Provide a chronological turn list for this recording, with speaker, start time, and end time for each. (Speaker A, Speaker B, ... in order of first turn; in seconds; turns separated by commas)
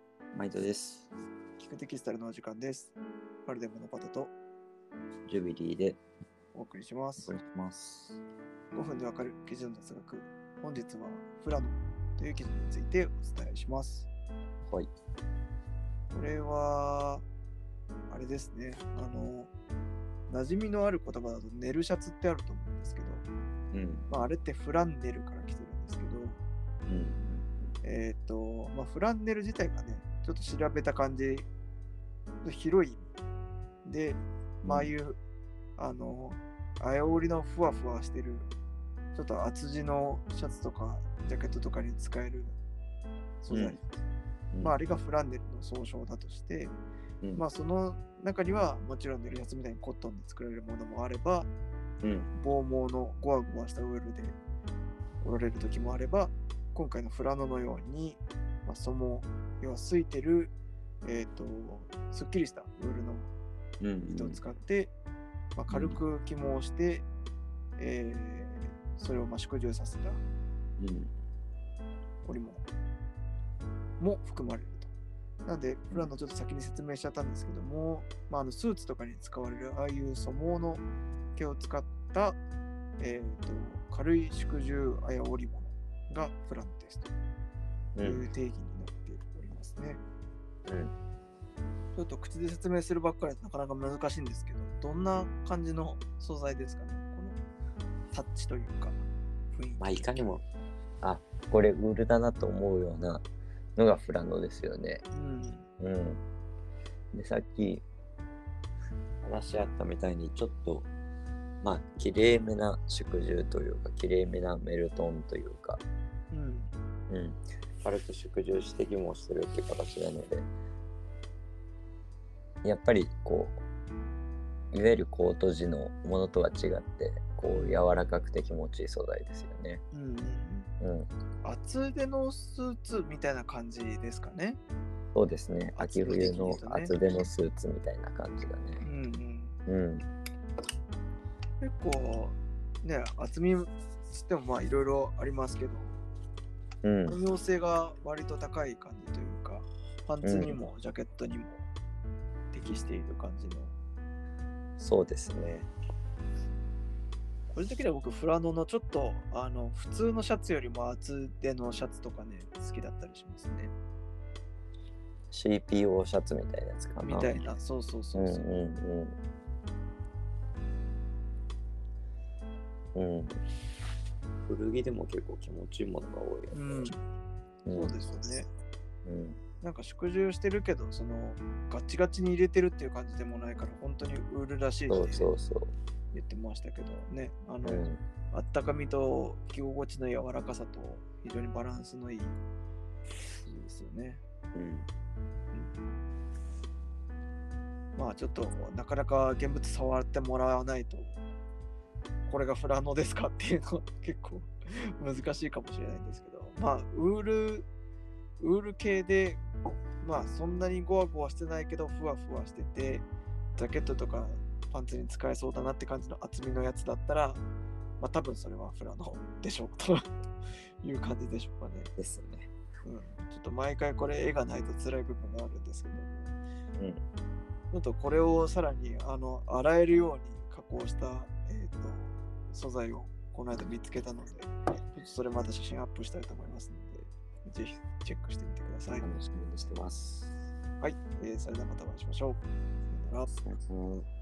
Speaker A: 0.3-1.1, Speaker B: 1.6-2.9, Speaker B: 3.5-4.3, Speaker A: 5.3-6.0, Speaker B: 6.5-7.3, Speaker A: 7.2-8.2, Speaker B: 8.7-14.1, Speaker B: 16.1-17.2, Speaker B: 18.1-19.5, Speaker B: 20.3-23.2, Speaker A: 23.7-24.1, Speaker B: 24.1-26.4, Speaker A: 26.9-27.7, Speaker B: 27.8-31.5, Speaker B: 32.4-33.1, Speaker B: 33.8-35.2, Speaker A: 34.6-34.9, Speaker B: 35.8-38.5, Speaker B: 39.1-42.6, Speaker B: 43.4-43.8, Speaker A: 43.5-43.8, Speaker B: 44.6-46.7, Speaker B: 47.3-51.5, Speaker A: 52.0-52.3, Speaker B: 52.3-54.4, Speaker B: 55.2-60.5, Speaker B: 61.0-63.3, Speaker A: 63.8-64.4, Speaker B: 64.0-64.9, Speaker B: 65.5-67.0, Speaker A: 65.7-66.0, Speaker B: 67.8-70.2, Speaker A: 70.8-71.1, Speaker B: 72.2-72.6, Speaker B: 74.0-74.9, Speaker B: 75.4-80.8, Speaker B: 81.3-82.4, Speaker B: 83.0-87.1, Speaker A: 88.0-88.3, Speaker B: 88.0-90.0, Speaker A: 90.7-90.9, Speaker B: 91.9-97.4, Speaker B: 98.1-99.0, Speaker B: 99.5-100.4, Speaker A: 99.8-100.4, Speaker A: 101.0-103.2, Speaker A: 103.8-105.0, Speaker B: 105.1-105.7, Speaker A: 105.8-106.2, Speaker A: 107.1-107.8, Speaker A: 109.2-110.9, Speaker A: 111.6-115.8, Speaker B: 116.3-116.7, Speaker A: 117.1-120.5, Speaker A: 122.6-123.6, Speaker A: 124.7-129.8, Speaker B: 127.5-127.9, Speaker B: 129.9-130.7, Speaker A: 130.8-131.1, Speaker B: 131.4-134.6, Speaker A: 135.1-138.8, Speaker B: 135.7-136.9, Speaker B: 138.8-139.6, Speaker A: 139.7-140.0, Speaker B: 141.6-146.0, Speaker A: 146.8-147.2, Speaker B: 147.1-151.7, Speaker A: 150.2-150.6, Speaker B: 152.5-153.7, Speaker A: 154.8-155.7, Speaker B: 157.5-163.7, Speaker A: 165.3-167.3, Speaker B: 167.0-168.5, Speaker A: 168.1-169.2, Speaker A: 172.9-173.4, Speaker A: 174.4-176.9, Speaker B: 176.5-177.0, Speaker A: 177.7-178.0, Speaker B: 177.7-178.5, Speaker A: 179.1-179.4, Speaker B: 179.6-185.3, Speaker A: 184.9-185.7, Speaker B: 186.1-192.4, Speaker A: 187.6-188.0, Speaker B: 193.3-194.2, Speaker A: 194.5-194.9, Speaker B: 197.9-201.2, Speaker B: 202.3-207.7, Speaker B: 208.4-209.4, Speaker B: 210.0-217.4, Speaker B: 218.0-220.1, Speaker B: 220.8-221.9, Speaker A: 222.0-222.5, Speaker B: 222.8-226.3, Speaker A: 226.8-227.0, Speaker B: 227.7-239.1, Speaker A: 239.0-240.4, Speaker B: 240.8-243.3, Speaker A: 243.3-244.1